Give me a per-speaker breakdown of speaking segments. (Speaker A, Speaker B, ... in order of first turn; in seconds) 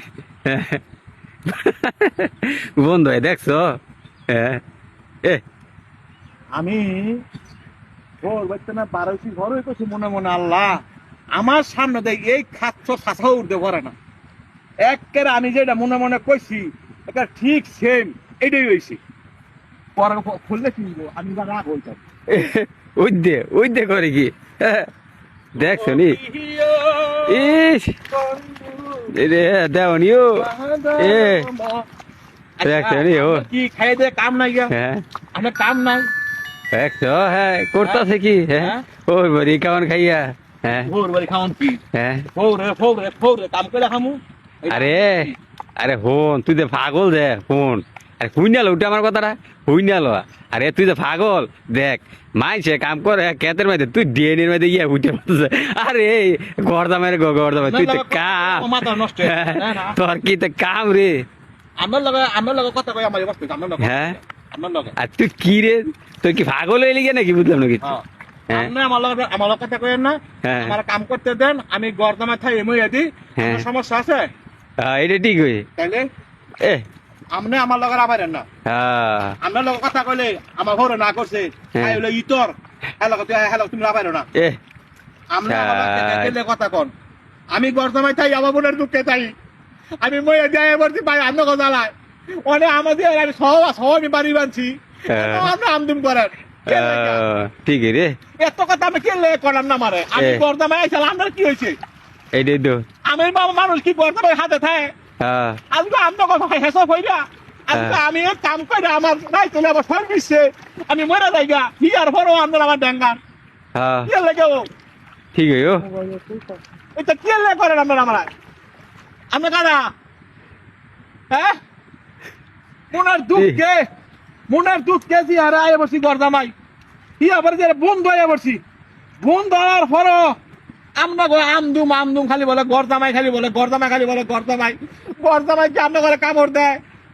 Speaker A: 0.5-0.8, 1.4-3.6, 4.3-4.6, 22.3-24.9, 25.6-26.2, 27.3-27.9, 29.1-30.4, 31.0-31.5, 32.6-33.4, 34.7-35.0, 36.7-40.9, 41.9-42.3, 44.7-45.1, 45.8-61.1, 63.8-64.1, 65.0-67.8, 70.4-70.7, 73.4-73.6, 74.8-75.6, 78.7-79.3, 81.7-82.0, 85.5-86.3, 95.1-95.5, 96.7-98.1, 100.2-100.4, 102.3-102.8, 105.2-105.6, 113.7-114.1, 115.3-115.8
Speaker B: 6.5-7.2, 8.2-10.8, 11.3-13.9, 14.8-19.0, 20.0-22.0, 25.6-27.6, 28.1-29.1, 30.4-31.9, 32.6-34.7, 35.3-36.1, 38.6-38.8, 40.7-41.8, 42.3-45.4, 57.6-60.0, 61.8-64.9, 67.8-74.2, 75.8-76.0, 77.3-78.4, 79.4-84.2, 85.3-86.9, 87.5-89.3, 90.0-91.9, 92.5-97.2, 98.4-101.8, 103.1-104.9, 105.7-113.2, 114.1-114.6, 115.8-118.3, 119.3-119.8, 121.3-121.5, 122.9-123.8, 124.5-126.5, 127.2-128.6, 129.2-130.3, 131.0-136.8